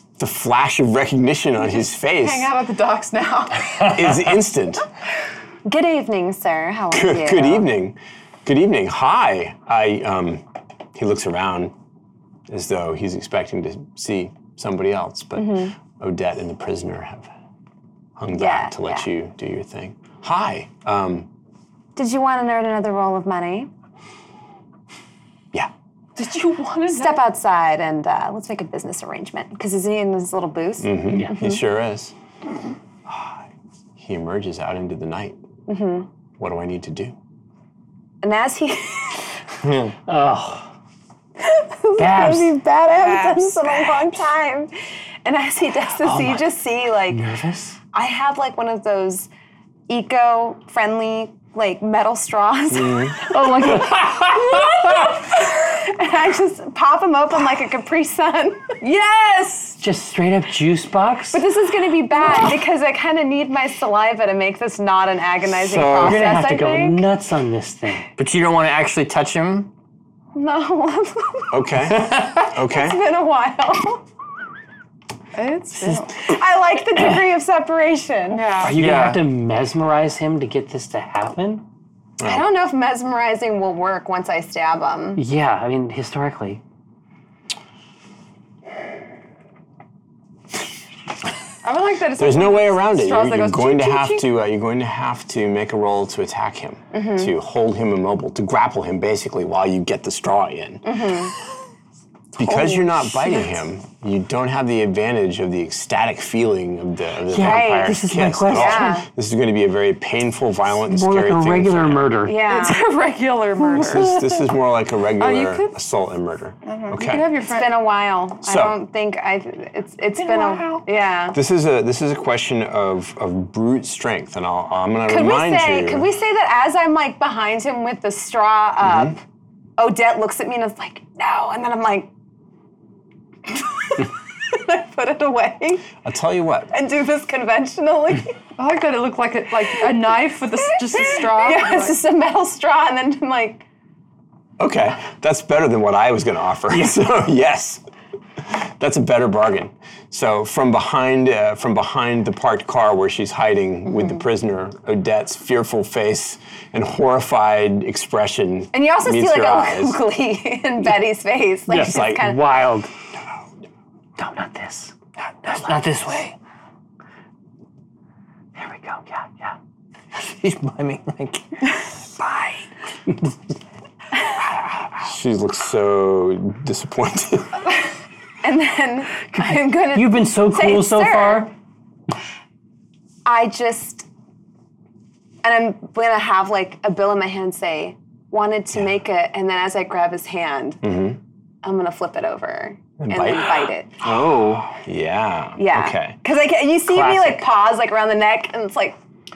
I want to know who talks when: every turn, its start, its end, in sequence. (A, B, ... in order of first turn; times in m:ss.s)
0:00.2-0:02.5 A
0:01.8-0:04.1 B
0:03.8-0:04.9 A
0:05.6-0:07.7 C
0:06.9-0:10.4 A
0:10.9-0:11.7 A
0:12.5-0:17.3 A
0:15.4-0:15.7 C
0:18.2-0:21.3 A
0:18.3-0:19.1 C
0:22.0-0:23.7 C
0:26.2-0:27.2 B
0:26.9-0:31.6 C
0:30.8-0:32.1 A
0:33.1-0:33.4 A
0:34.0-0:35.4 A
0:35.7-0:36.1 C
0:36.4-0:37.1 A
0:38.2-0:39.3 C
0:39.6-0:39.9 D
0:40.0-0:40.7 E
0:41.4-0:44.7 C
0:42.0-0:42.6 E
0:42.9-0:43.5 B
0:45.2-0:47.2 C
0:46.0-0:47.8 E
0:47.9-0:49.3 C
0:49.9-0:59.8 C
0:52.7-0:53.2 A
0:53.3-0:55.1 E
0:59.8-1:01.4 E
1:01.3-1:07.0 C
1:05.6-1:06.3 A
1:06.0-1:08.1 E
1:08.2-1:09.7 D
1:10.3-1:14.0 C
1:11.5-1:13.0 A
1:15.3-1:16.2 B
1:16.2-1:18.5 C
1:18.3-1:18.8 B
1:18.6-1:19.2 D
1:18.6-1:21.6 E
1:22.2-1:22.5 A
1:22.2-1:25.2 C
1:25.2-1:26.6 E
1:31.6-1:34.3 B
1:32.2-1:41.1 A
1:36.9-1:37.3 C
1:40.8-1:41.3 C
1:42.4-1:52.2 A
1:42.4-1:43.5 C
1:47.3-1:49.0 E
1:47.3-1:49.1 C
1:50.9-1:52.4 E
1:52.2-1:52.9 C
1:52.4-1:54.4 B
1:53.7-1:57.3 A
1:55.2-1:55.7 B
1:56.6-1:57.8 B
1:57.4-2:01.4 C
1:58.4-1:58.8 A
2:00.2-2:00.9 B
2:01.3-2:06.1 A
2:05.1-2:09.2 C
2:08.8-2:09.2 A
2:09.8-2:12.1 C
2:13.5-2:15.9 C
2:16.0-2:16.7 A
2:16.7-2:18.4 C
2:18.6-2:22.0 B
2:20.8-2:23.6 C
2:24.6-2:27.8 A
2:28.4-2:40.0 A
2:38.7-2:42.4 C
2:41.7-2:42.9 E
2:41.8-2:42.2 A
2:44.2-2:44.9 E
2:45.4-2:46.3 D
2:45.5-2:46.0 E
2:48.6-2:49.5 E
2:50.2-2:52.6 D
2:55.0-2:57.6 A
2:58.4-3:01.5 C
2:59.9-3:01.5 E
3:03.2-3:04.1 C
3:05.4-3:10.8 C
3:10.8-3:11.2 A
3:11.6-3:13.9 C
3:13.0-3:16.2 A
3:14.0-3:14.7 D
3:15.6-3:19.0 C
3:16.9-3:17.5 E